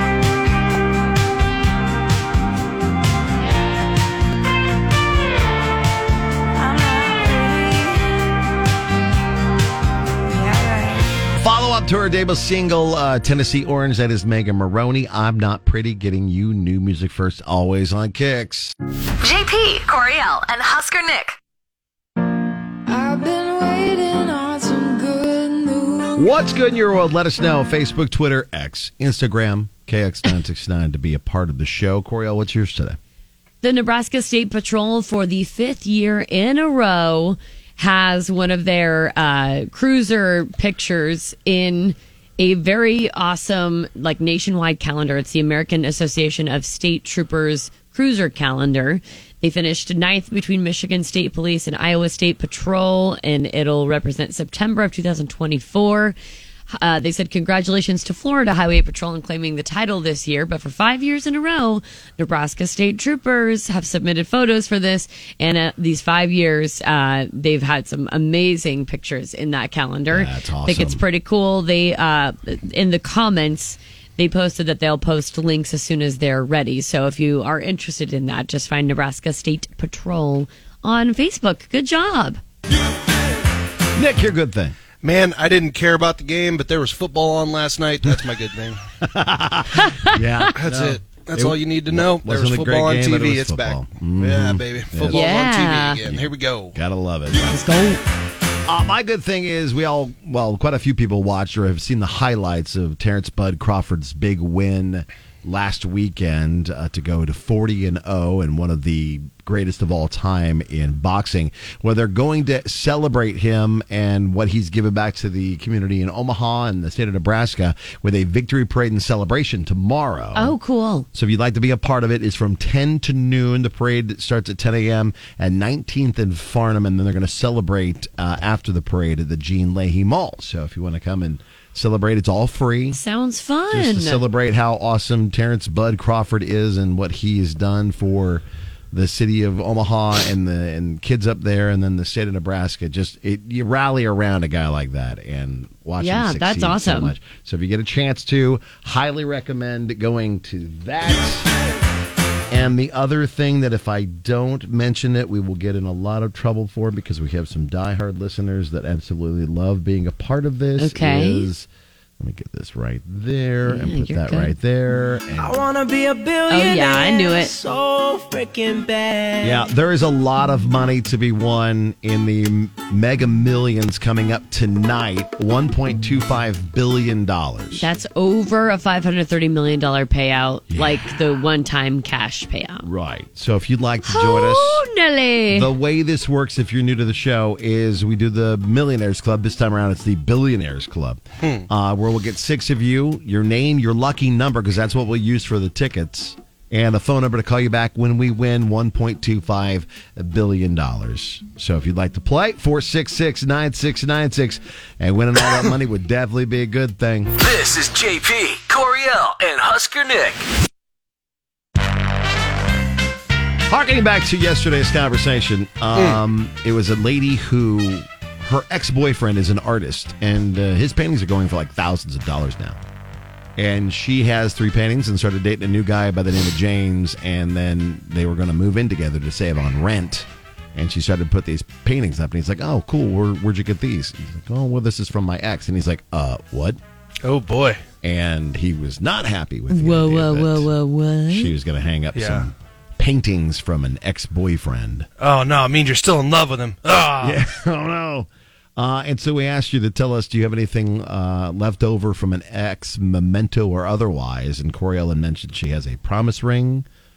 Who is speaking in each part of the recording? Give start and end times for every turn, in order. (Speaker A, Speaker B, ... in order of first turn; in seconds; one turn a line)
Speaker A: 6.5-8.3
Speaker A: 10.3-11.1
Speaker B: 11.4-18.7
Speaker C: 19.2-21.4
Speaker A: 22.9-26.3
Speaker B: 26.2-33.0
Speaker D: 33.6-56.1
Speaker D: 56.7-82.4
Speaker B: 70.1-71.0
Speaker B: 83.9-84.7
Speaker E: 85.0-88.8
Speaker B: 89.0-95.2
Speaker D: 89.7-90.5
Speaker E: 90.5-96.7
Speaker D: 95.1-96.0
Speaker B: 96.0-97.6
Speaker D: 97.4-98.0
Speaker B: 98.7-120.5
Speaker D: 120.3-121.1
Speaker B: 121.1-133.0
Speaker D: 132.9-134.2
Speaker B: 133.7-151.5
Speaker D: 146.0-147.1
Speaker B: 152.5-161.7
Speaker D: 160.8-161.5
Speaker B: 162.2-165.6
Speaker D: 163.7-164.5
Speaker F: 165.4-169.6
Speaker D: 166.5-167.5
Speaker B: 169.4-177.9
Speaker D: 177.8-182.9
Speaker B: 180.7-181.1
Speaker B: 182.8-184.8
Speaker D: 184.1-185.7
Speaker B: 185.5-207.3
Speaker G: 207.4-210.4
Speaker B: 213.7-222.8
Speaker E: 215.9-216.2
Speaker B: 223.6-236.8
Speaker E: 237.2-237.8
Speaker B: 238.0-240.7
Speaker D: 239.7-241.5
Speaker B: 241.3-245.1
Speaker E: 242.1-242.5
Speaker E: 245.2-247.4
Speaker B: 247.2-256.9